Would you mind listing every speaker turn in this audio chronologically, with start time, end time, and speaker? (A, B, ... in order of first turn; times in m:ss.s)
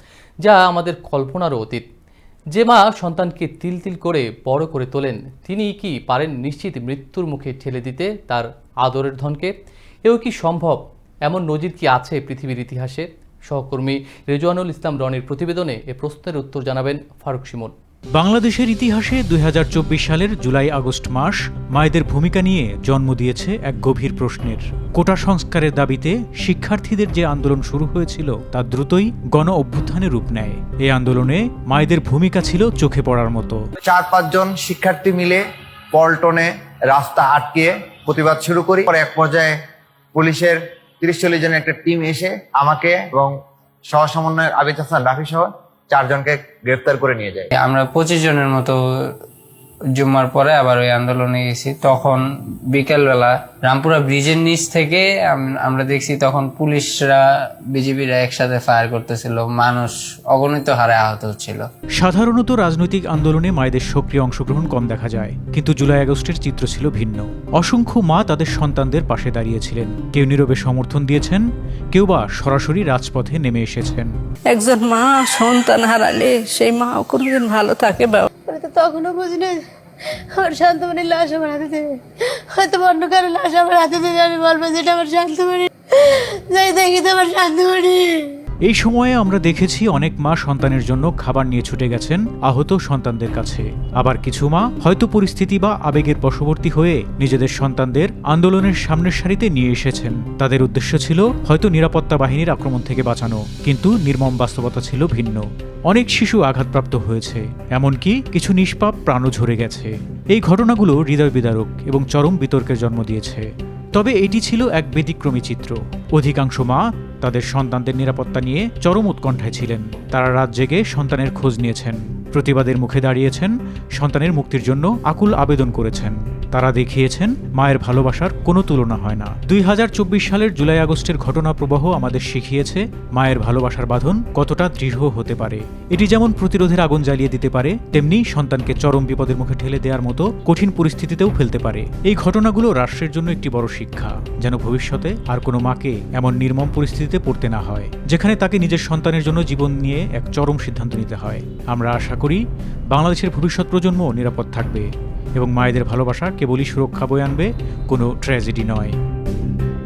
0:00.4-0:01.8 A
0:02.5-0:09.5 A
0:10.0-0:17.7 A
0:18.2-0:33.6 B
0:33.8-0:35.4 C
0:35.9-0:39.6 C
0:40.2-0:43.3 C
0:43.9-0:47.5 C
0:47.6-0:48.8 D
0:50.0-1:01.7 D
1:02.0-1:14.1 B
1:14.5-1:18.3 E
1:18.5-1:19.7 F
1:20.3-1:28.4 F
1:28.7-2:32.4 B
2:32.9-2:39.0 B